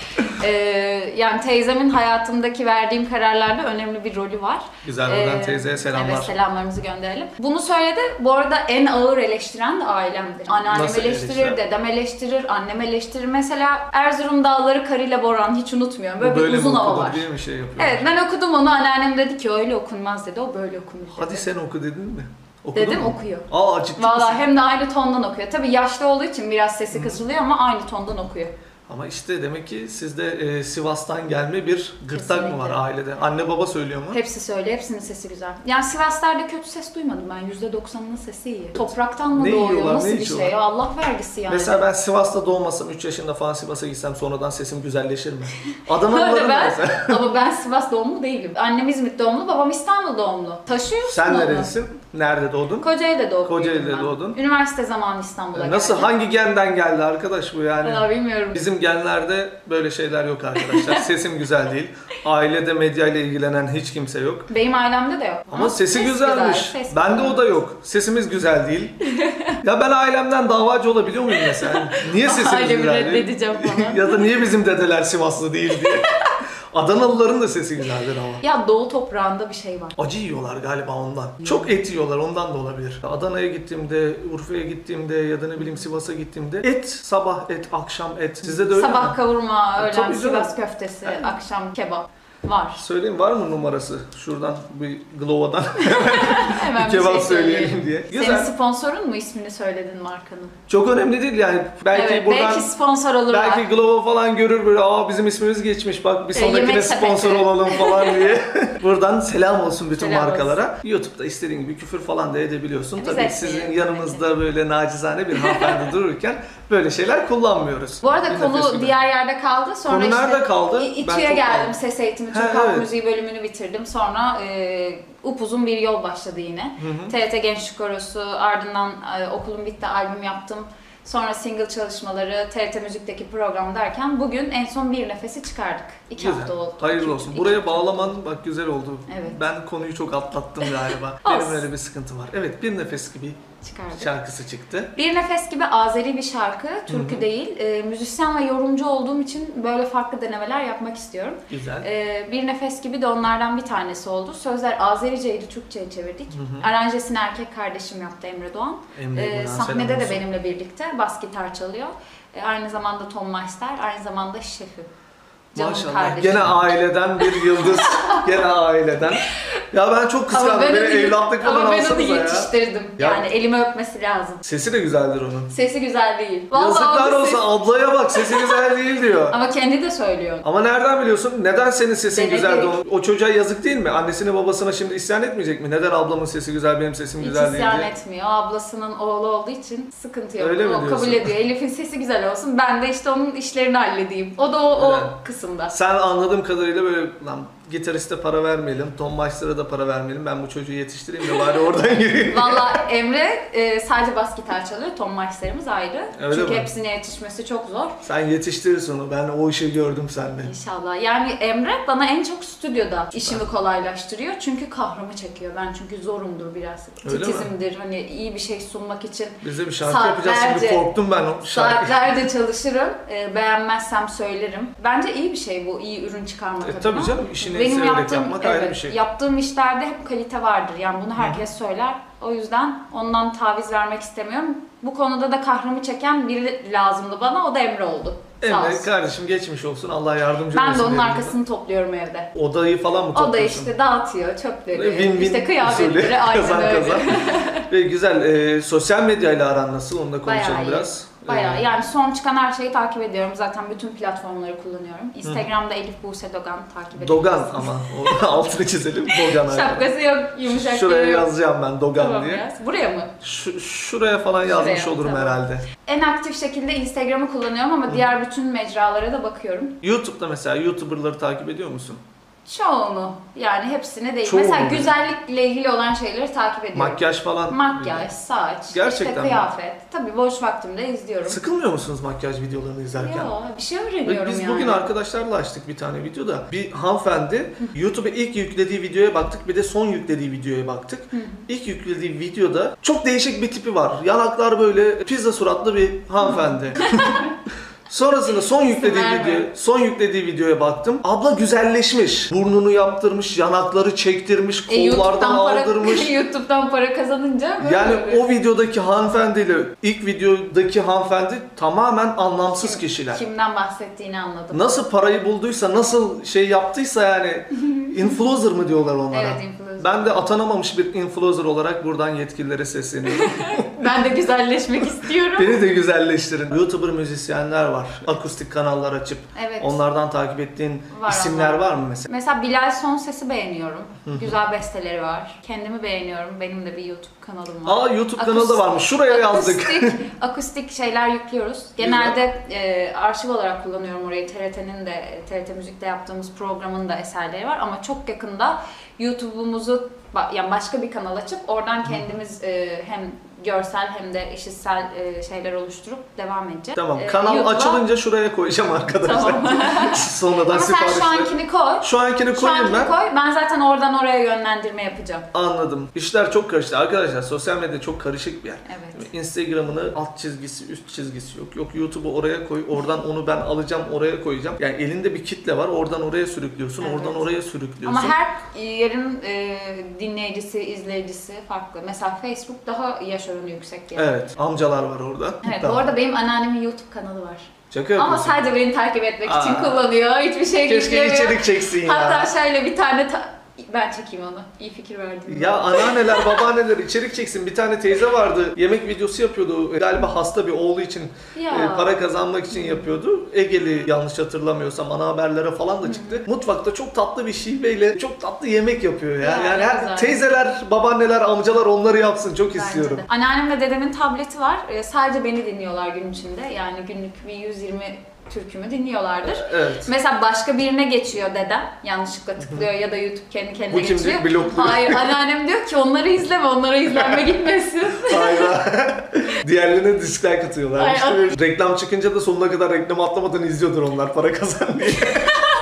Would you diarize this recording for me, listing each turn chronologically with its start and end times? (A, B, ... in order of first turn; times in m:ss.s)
0:00.3-0:17.3 A
0:04.8-0:06.3 B
0:10.7-0:11.6 B
0:16.2-0:18.0 B
0:17.8-0:21.5 A
0:21.2-0:24.4 B
0:22.7-0:28.5 A
0:26.9-0:27.2 B
0:28.9-0:34.2 B
0:32.1-0:32.8 A
0:34.1-0:41.8 A
0:38.8-0:40.5 B
0:41.5-0:47.2 B
0:46.0-0:51.7 A
0:51.1-0:52.9 B
0:52.8-0:56.1 A
0:53.4-0:54.4 B
0:55.6-1:04.4 B
0:57.8-0:58.6 A
1:00.7-1:01.0 A
1:04.5-1:07.5 A
1:05.5-1:08.9 B
1:09.1-1:09.6 A
1:09.6-1:16.1 B
1:11.3-1:14.3 A
1:16.7-1:18.4 B
1:18.4-1:20.0 A
1:20.0-1:29.2 B
1:28.4-1:32.8 A
1:29.8-1:30.5 B
1:31.0-1:31.3 B
1:32.8-1:38.5 B
1:35.8-1:40.6 A
1:40.7-1:42.7 B
1:41.9-1:43.7 A
1:43.3-1:58.9 B
1:46.3-1:48.3 A
1:50.0-1:50.6 A
1:53.0-1:54.3 A
1:55.4-1:55.8 A
1:58.0-2:18.1 A
1:59.9-2:01.7 B
2:02.3-2:02.8 B
2:06.8-2:07.1 B
2:16.2-2:23.4 B
2:19.1-2:19.4 A
2:20.6-2:21.7 A
2:23.6-2:24.1 A
2:24.0-2:24.9 B
2:24.9-2:44.9 A
2:26.9-2:27.2 B
2:31.5-2:31.9 B
2:36.3-2:36.7 B
2:39.0-2:40.2 B
2:45.5-2:48.4 A
2:45.6-2:53.2 B
2:50.3-2:54.4 A
2:54.4-2:55.5 B
2:55.5-2:57.5 A
2:56.5-2:59.4 B
2:58.2-2:58.6 A
2:59.3-3:00.4 A
3:00.4-3:07.9 B
3:02.1-3:02.8 A
3:07.2-3:15.7 A
3:10.4-3:11.3 B
3:14.8-3:15.1 B
3:15.7-3:22.6 B
3:22.3-3:28.0 A
3:26.2-3:26.7 B
3:28.0-3:30.5 B
3:30.4-3:58.9 A
3:33.2-3:33.4 B
3:37.0-3:37.5 B
3:39.4-3:42.1 B
3:46.6-3:49.0 B
3:58.4-4:01.3 B
4:00.5-4:02.3 A
4:02.3-4:03.7 B
4:03.1-4:07.6 A
4:04.7-4:07.2 B
4:07.7-4:11.6 B
4:10.2-4:18.2 A
4:17.0-4:19.9 B
4:19.2-4:21.3 A
4:20.4-4:22.4 B
4:21.9-4:23.1 A
4:23.2-4:25.6 B
4:24.4-4:29.8 A
4:29.8-4:32.0 B
4:32.4-4:41.4 A
4:34.2-4:34.9 B
4:36.7-4:38.1 B
4:38.7-4:39.4 B
4:41.2-4:43.3 B
4:43.0-4:44.8 A
4:44.0-4:57.2 B
4:51.1-4:51.5 A
4:56.8-4:57.2 A
4:57.9-5:06.1 B
4:58.5-4:59.5 A
5:04.7-5:08.2 A
5:07.6-5:13.2 B
5:12.6-5:14.8 A
5:14.5-5:23.7 B
5:19.1-5:20.2 A
5:23.2-5:25.6 A
5:25.4-5:32.0 B
5:29.3-5:29.8 A
5:30.9-5:57.8 A
5:34.0-5:34.3 B
5:37.6-5:40.0 B
5:41.8-5:42.2 B
5:51.8-5:52.1 B
5:56.8-6:02.9 B
5:59.0-6:05.2 A
6:05.3-6:18.2 B
6:08.6-6:09.0 A
6:16.8-6:24.2 A
6:24.0-6:25.9 B
6:25.4-6:36.4 A
6:27.7-6:28.4 B
6:29.2-6:29.8 B
6:30.6-6:32.3 B
6:35.3-6:53.0 B
6:41.3-6:41.9 A
6:42.5-6:42.9 A
6:45.8-6:46.2 A
6:49.2-6:50.3 A
6:52.5-7:08.5 A
6:59.2-6:59.9 B
7:02.4-7:02.6 B
7:03.7-7:05.0 B
7:08.0-7:15.3 B
7:10.8-7:11.4 A